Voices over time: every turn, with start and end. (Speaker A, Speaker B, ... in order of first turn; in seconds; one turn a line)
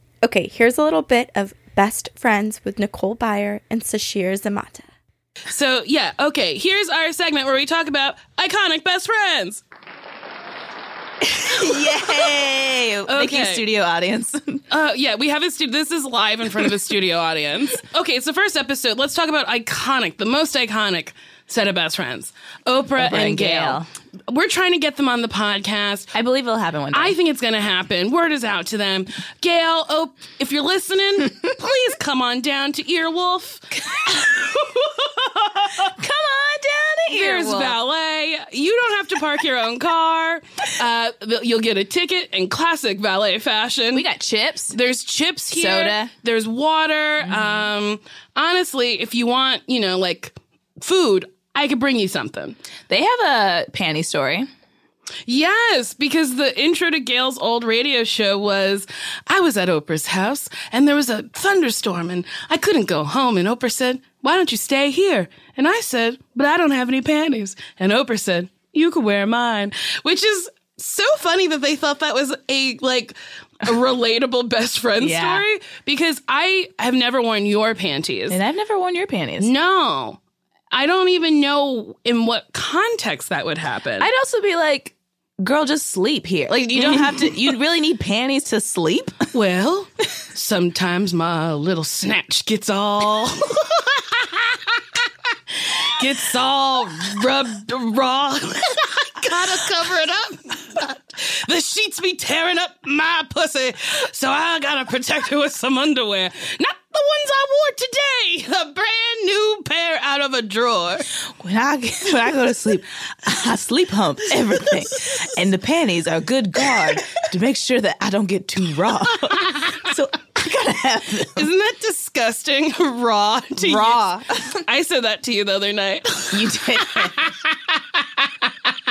Speaker A: 0.2-4.8
Speaker B: 5.5-9.6
Speaker C: 11.4-14.6
Speaker B: 11.4-12.5
Speaker B: 13.1-13.6
Speaker B: 14.7-26.1
Speaker C: 23.0-23.9
Speaker C: 26.1-27.2
Speaker B: 26.9-35.0
Speaker C: 35.6-37.8
Speaker B: 37.1-44.0
Speaker C: 43.9-44.8
Speaker B: 44.7-52.6
Speaker C: 45.5-46.1
Speaker C: 47.2-47.6
Speaker C: 52.9-54.5
Speaker B: 55.2-78.4
Speaker C: 75.0-75.5
Speaker C: 78.3-79.5
Speaker B: 79.4-80.2
Speaker B: 80.7-84.1
Speaker C: 84.0-89.3
Speaker B: 89.3-111.1
Speaker C: 111.4-121.5
Speaker B: 119.3-119.7
Speaker B: 121.3-128.5
Speaker C: 123.6-124.4
Speaker C: 126.3-127.3